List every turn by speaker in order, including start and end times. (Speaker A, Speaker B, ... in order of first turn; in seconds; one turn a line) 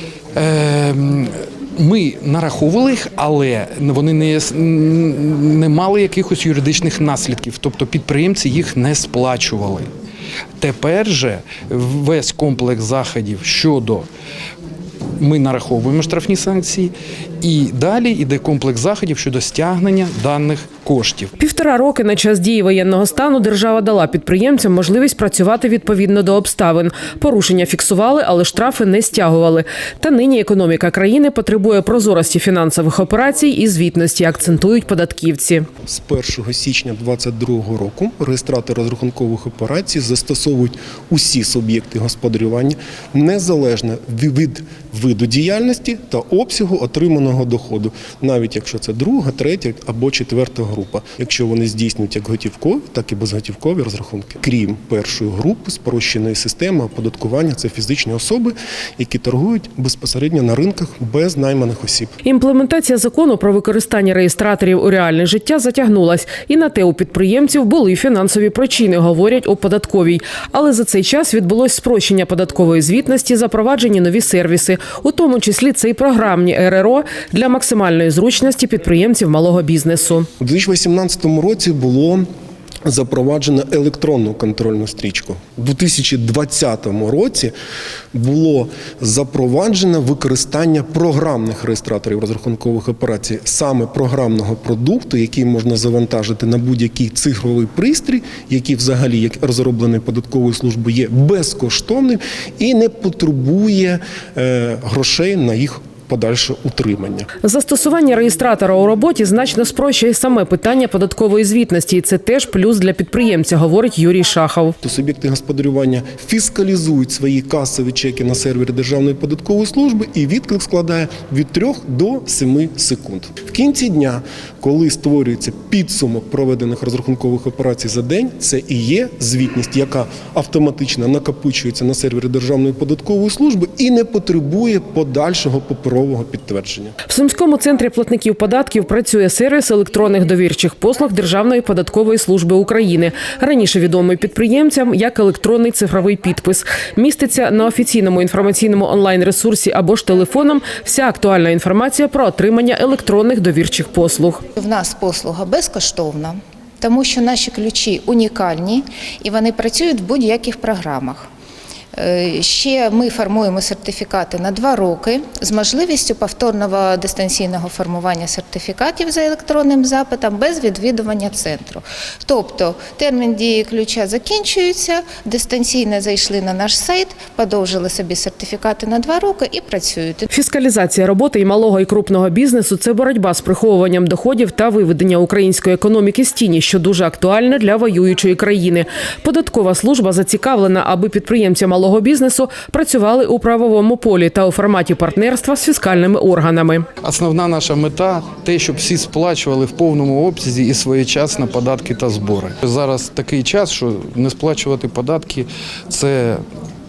Speaker A: 0.4-9.9
Speaker A: 10.6-14.1
Speaker A: 15.2-21.3
Speaker B: 21.4-35.7
Speaker C: 35.9-62.1
Speaker B: 62.2-80.3
Speaker C: 80.4-82.2
Speaker C: 82.9-87.5
Speaker C: 88.1-107.3
Speaker B: 107.4-114.8
Speaker C: 114.8-136.9
Speaker B: 137.1-154.4
Speaker D: 154.6-161.3
Speaker D: 162.0-180.2
Speaker B: 180.3-196.9
Speaker A: 197.0-206.4